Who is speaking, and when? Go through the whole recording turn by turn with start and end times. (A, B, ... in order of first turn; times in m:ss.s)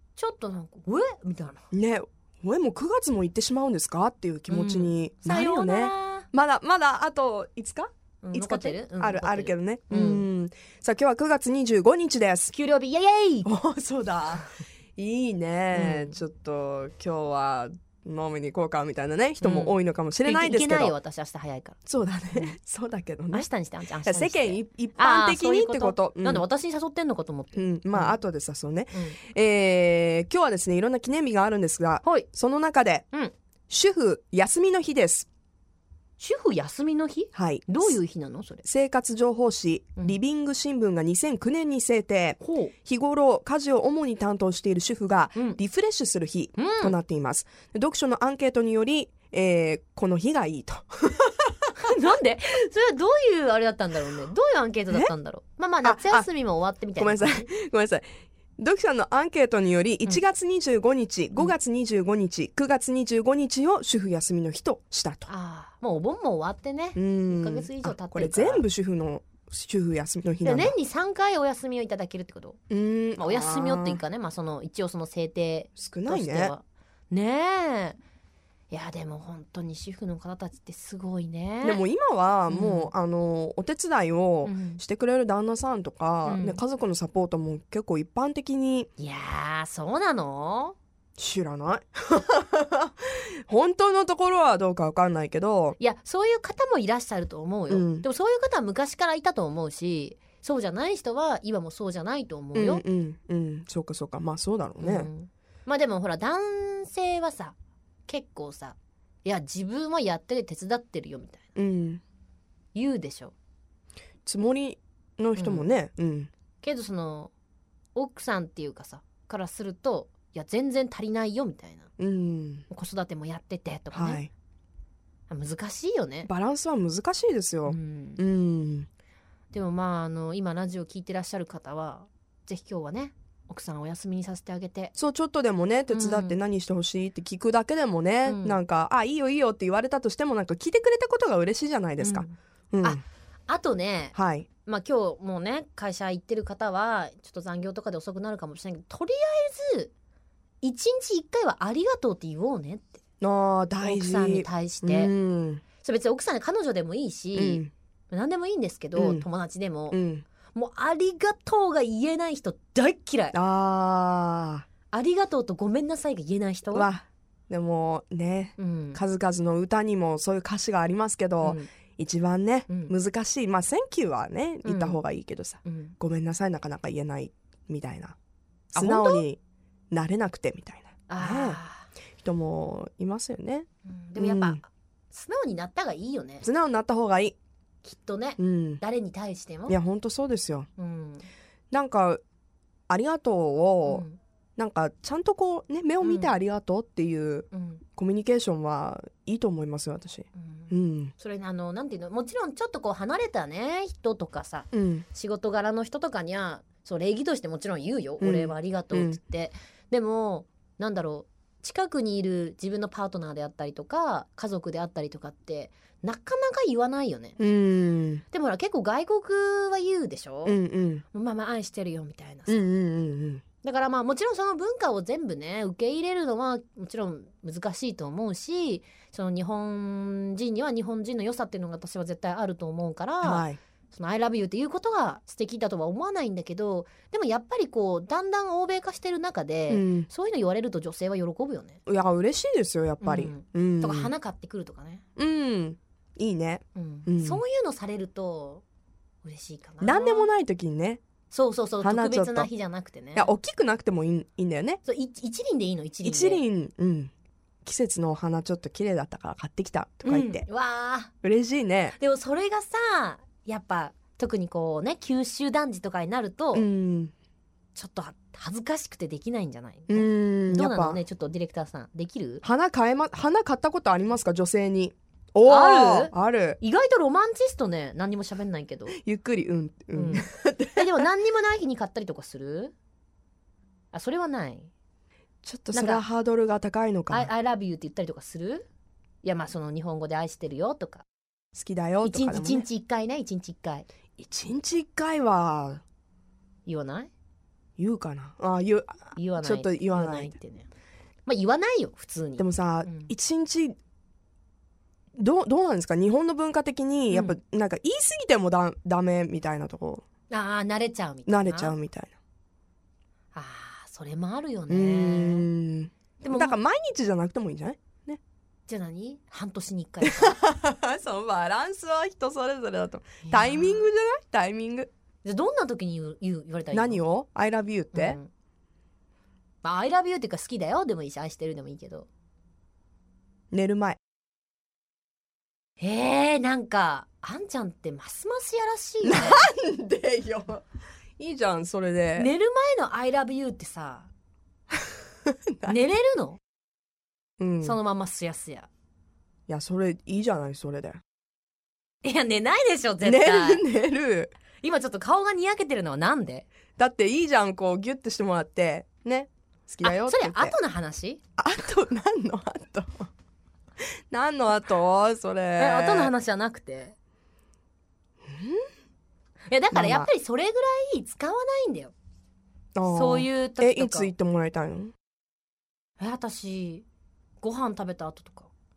0:00.2-0:01.7 A
0:01.7-0:12.5 B
0:04.5-0:06.3 A
0:08.2-0:10.3 A
0:12.5-0:13.5 A
0:13.5-0:21.0 B
0:15.7-0:16.2 A
0:19.4-0:21.8 A
0:21.9-0:23.5 B
0:23.3-0:28.2 A
0:24.0-0:26.4 B
0:27.6-0:33.1 B
0:28.9-0:29.2 A
0:33.7-0:35.3 B
0:36.2-0:38.6 A
0:37.3-0:38.0 B
0:38.6-0:51.5 B
0:42.4-0:42.7 A
0:46.6-0:47.0 A
0:51.8-0:57.5 A
0:55.8-0:56.3 B
0:57.0-0:58.1 B
0:58.6-1:05.3 B
1:05.3-1:08.6 A
1:07.0-1:10.7 B
1:10.4-1:12.6 A
1:12.7-1:14.0 B
1:13.2-1:18.0 A
1:15.8-1:16.5 B
1:18.7-1:21.8 A
1:21.6-1:28.9 B
1:22.5-1:22.9 A
1:24.4-1:24.8 A
1:26.2-1:26.6 A
1:29.0-1:30.8 A
1:31.2-1:35.8 B
1:35.8-1:42.8 A
1:37.7-1:38.1 B
1:42.6-1:45.1 B
1:44.8-1:47.6 A
1:48.1-1:51.5 A
1:51.6-1:52.0 B
1:52.8-1:53.3 A
1:54.3-1:56.3 B
1:55.4-1:55.7 A
1:56.6-1:57.3 A
1:58.0-2:01.9 A
2:02.0-2:02.7 B
2:02.7-2:04.2 A
2:03.9-2:04.3 B
2:05.3-2:06.3 A
2:06.3-2:08.9 B
2:07.7-2:08.2 A
2:09.5-2:14.9 A
2:15.0-2:23.0 B
2:15.9-2:16.4 A
2:18.3-2:18.6 A
2:22.0-2:29.9 A
2:24.2-2:24.5 B
2:30.6-2:33.0 A
2:33.2-2:35.6 B
2:33.8-2:35.1 A
2:35.8-2:40.0 A
2:37.3-2:37.7 B
2:39.0-2:39.2 B
2:39.9-2:40.3 B
2:40.5-2:43.4 A
2:43.3-2:44.7 B
2:44.9-2:46.9 A
2:46.7-2:58.2 B
2:48.6-2:49.0 A
2:51.4-2:51.7 A
2:52.7-2:52.9 A
2:54.6-2:55.0 A
2:55.6-2:56.0 A
2:58.7-2:59.4 B
2:58.8-2:59.3 A
2:59.9-3:01.6 B
3:01.1-3:01.9 A
3:02.2-3:04.6 B
3:03.9-3:06.5 A
3:06.4-3:07.4 B
3:07.8-3:09.8 A
3:08.4-3:08.8 B
3:09.7-3:10.7 B
3:10.8-3:11.3 A
3:11.7-3:12.2 B
3:12.9-3:14.0 B
3:13.9-3:14.2 A
3:14.6-3:21.1 B
3:16.0-3:16.3 A
3:17.5-3:17.8 A
3:20.4-3:37.4 A
3:24.7-3:25.0 B
3:28.2-3:29.2 B
3:37.4-3:38.2 B
3:38.3-3:40.6 A
3:40.4-3:41.0 B
3:41.1-3:42.7 A
3:42.5-3:43.4 B
3:43.6-4:01.8 A
3:53.2-3:53.6 B
3:59.7-4:00.1 B
4:01.9-4:04.1 B
4:03.0-4:05.0 A
4:05.2-4:07.4 B
4:06.8-4:08.6 A
4:09.2-4:10.3 A
4:09.8-4:11.0 B
4:11.3-4:13.3 A
4:11.8-4:12.5 B
4:13.2-4:14.8 B
4:14.8-4:16.4 A
4:16.0-4:17.1 B
4:17.6-4:20.5 B
4:20.0-4:21.1 A
4:21.2-4:22.0 B
4:22.0-4:26.7 A
4:26.5-4:27.1 B
4:27.8-4:32.4 A
4:29.9-4:31.0 B
4:32.4-4:36.6 B
4:35.4-4:39.0 A
4:38.9-4:41.0 B
4:39.9-4:42.7 A
4:43.9-4:44.7 A
4:45.4-4:47.3 B
4:45.7-4:46.0 A
4:47.1-4:48.6 A
4:49.2-4:51.0 A
4:51.5-4:52.7 B
4:52.0-4:53.9 A
4:54.2-4:55.8 B
4:56.7-4:57.1 A
4:57.8-5:00.4 B
4:59.2-5:00.7 A
5:01.3-5:03.1 A
5:02.4-5:03.8 B
5:05.2-5:10.0 B
5:07.1-5:07.4 A
5:10.3-5:11.8 A
5:11.3-5:12.1 B
5:13.3-5:15.5 A
5:14.7-5:18.2 B
5:16.2-5:16.6 A
5:18.7-5:20.4 A
5:20.0-5:24.9 B
5:23.3-5:23.9 A
5:25.2-5:27.0 A
5:26.7-5:28.2 B
5:27.9-5:28.3 A
5:29.6-5:32.1 A
5:33.5-5:34.0 B
5:35.8-5:39.5 A
5:39.0-5:40.6 B
5:41.2-5:42.3 B
5:42.2-5:44.1 A
5:45.3-5:45.8 B
5:45.7-5:46.4 A
5:47.4-5:47.8 B
5:47.6-5:48.7 A
5:49.5-5:51.0 B
5:52.0-5:53.6 A
5:53.0-5:54.4 B
5:54.6-5:56.5 A
5:56.8-6:00.6 B
5:59.8-6:01.2 A
6:01.4-6:03.1 B
6:04.1-6:06.1 B
6:05.6-6:07.0 A
6:08.3-6:08.6 B
6:09.5-6:11.9 A
6:09.7-6:10.1 B
6:12.8-6:14.9 B
6:12.8-6:14.1 A
6:16.0-6:16.8 A
6:17.4-6:18.5 A